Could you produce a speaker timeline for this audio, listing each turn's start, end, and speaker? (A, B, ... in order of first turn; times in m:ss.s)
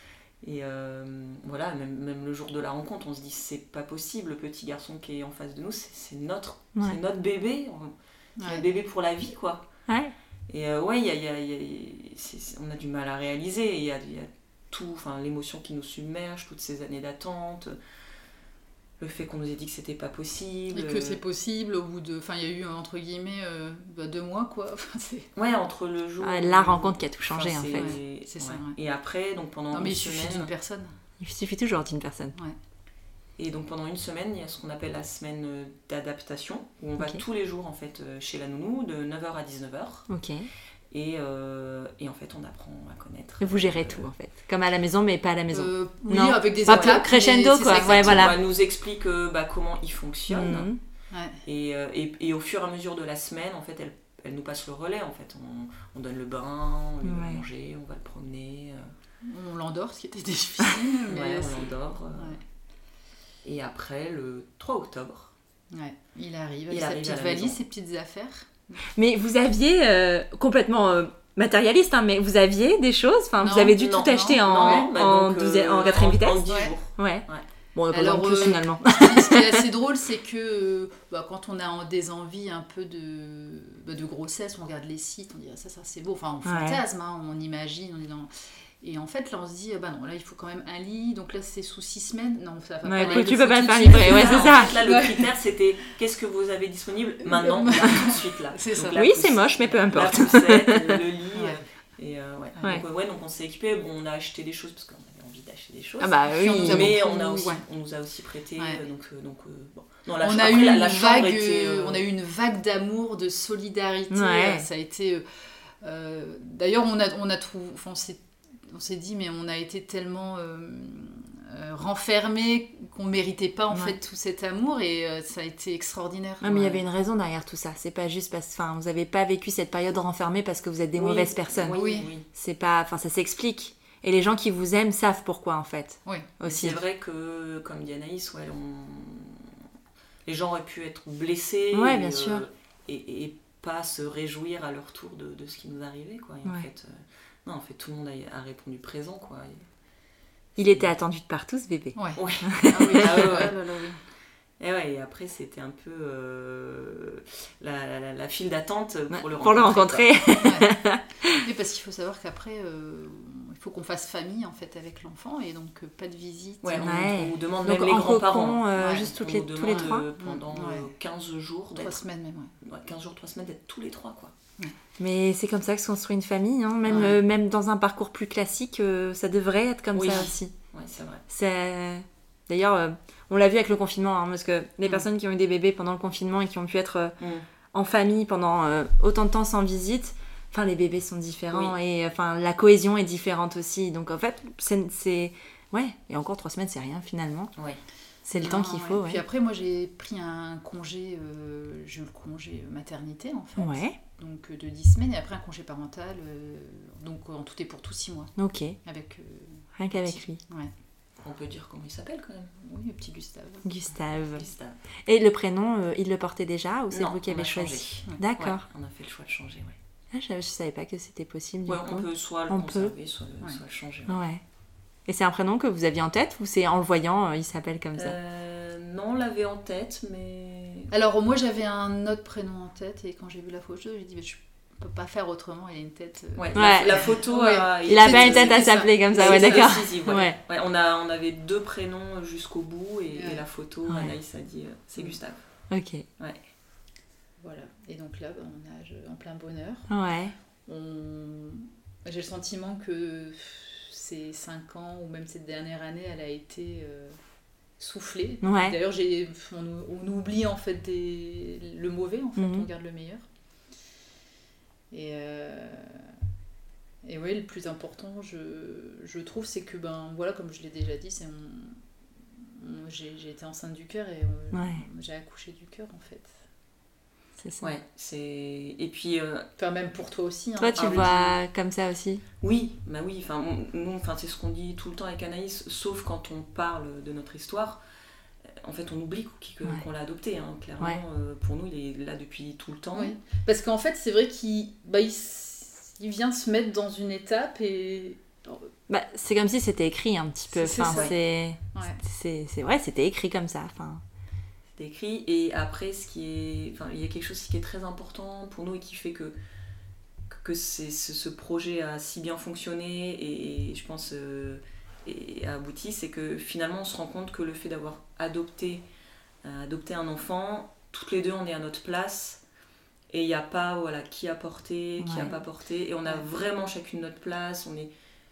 0:00.4-0:09.6 A
0:08.4-0:08.6 B
0:09.9-0:10.1 C
0:10.5-0:17.8 A
0:19.0-0:21.2 A
0:20.7-0:25.3 B
0:25.4-0:30.5 A
0:26.2-0:27.9 C
0:27.7-0:28.8 B
0:29.7-0:30.9 B
0:31.2-0:32.4 C
0:33.4-0:40.1 A
0:40.1-0:40.5 C
0:40.9-0:44.1 A
0:43.4-0:48.4 C
0:45.5-0:48.4 B
0:46.7-0:47.0 A
0:47.7-0:50.7 A
0:50.3-0:50.8 C
0:51.1-0:51.4 B
0:51.4-0:58.9 A
0:57.0-0:57.4 C
0:59.2-1:02.4 B
1:01.1-1:02.4 A
1:03.4-1:05.3 A
1:05.7-1:08.8 B
1:06.7-1:07.6 A
1:08.9-1:16.4 C
1:13.4-1:14.9 B
1:13.7-1:17.4 A
1:16.0-1:16.7 B
1:17.0-1:19.5 C
1:17.9-1:28.3 B
1:26.4-1:26.8 C
1:28.8-1:35.3 B
1:32.8-1:34.7 C
1:33.0-1:52.0 A
1:37.2-1:39.0 B
1:38.9-1:41.0 C
1:41.3-1:41.6 B
1:46.0-1:47.0 C
1:46.3-1:47.6 B
1:50.2-1:55.2 B
1:54.1-1:54.7 C
1:55.8-2:06.8 B
2:06.4-2:11.7 C
2:10.9-2:12.3 A
2:11.7-2:12.1 B
2:12.3-2:16.8 C
2:16.4-2:19.5 A
2:20.3-2:29.6 A
2:21.7-2:22.4 C
2:30.6-2:33.6 C
2:30.6-2:30.9 A
2:31.9-2:33.6 B
2:32.1-2:34.0 A
2:34.6-2:40.6 A
2:39.1-2:41.4 C
2:40.4-2:40.7 B
2:41.4-2:47.0 B
2:46.6-2:52.0 A
2:46.8-2:50.1 C
2:48.8-2:50.9 B
2:51.8-2:52.5 B
2:52.6-2:54.3 A
2:55.0-3:00.5 C
2:56.8-2:57.2 B
2:56.9-2:57.2 A
2:59.9-3:01.2 A
3:01.3-3:07.2 C
3:07.2-3:07.5 A
3:07.7-3:17.5 C
3:11.5-3:11.8 A
3:17.6-3:17.8 A
3:18.3-3:19.2 C
3:18.3-3:28.3 B
3:23.6-3:24.0 C
3:28.4-3:28.8 C
3:28.8-3:30.7 B
3:29.8-3:30.4 C
3:31.2-3:32.5 A
3:32.6-3:33.7 B
3:33.6-3:34.5 C
3:34.4-3:34.8 A
3:35.1-3:38.6 C
3:36.9-3:39.8 A
3:40.1-3:42.9 C
3:41.7-3:44.2 A
3:44.1-3:44.4 C
3:45.1-3:48.2 C
3:48.0-3:50.9 A
3:50.9-3:59.9 B
3:56.4-4:05.4 A
3:56.6-3:57.1 C
3:57.9-4:00.4 C
4:03.1-4:03.4 B
4:03.9-4:04.1 C
4:05.7-4:06.0 C
4:07.4-4:09.9 B
4:09.9-4:10.4 C
4:10.6-4:17.2 B
4:17.8-4:23.2 B
4:18.4-4:18.8 C
4:22.4-4:22.7 C
4:24.9-4:26.1 B
4:27.0-4:31.8 B
4:32.4-4:36.4 B
4:34.5-4:34.8 C
4:37.4-4:37.7 C
4:37.6-4:39.5 A
4:39.6-4:41.4 B
4:40.6-4:42.2 C
4:40.8-4:41.2 A
4:42.4-4:47.8 A
4:48.6-4:53.1 A
4:52.9-4:58.7 B
4:58.9-5:04.0 C
5:00.5-5:01.1 B
5:00.8-5:01.1 A
5:01.7-5:02.0 B
5:04.8-5:09.4 A
5:10.3-5:18.8 A
5:19.4-5:22.4 A
5:23.1-5:27.9 A
5:25.0-5:25.3 C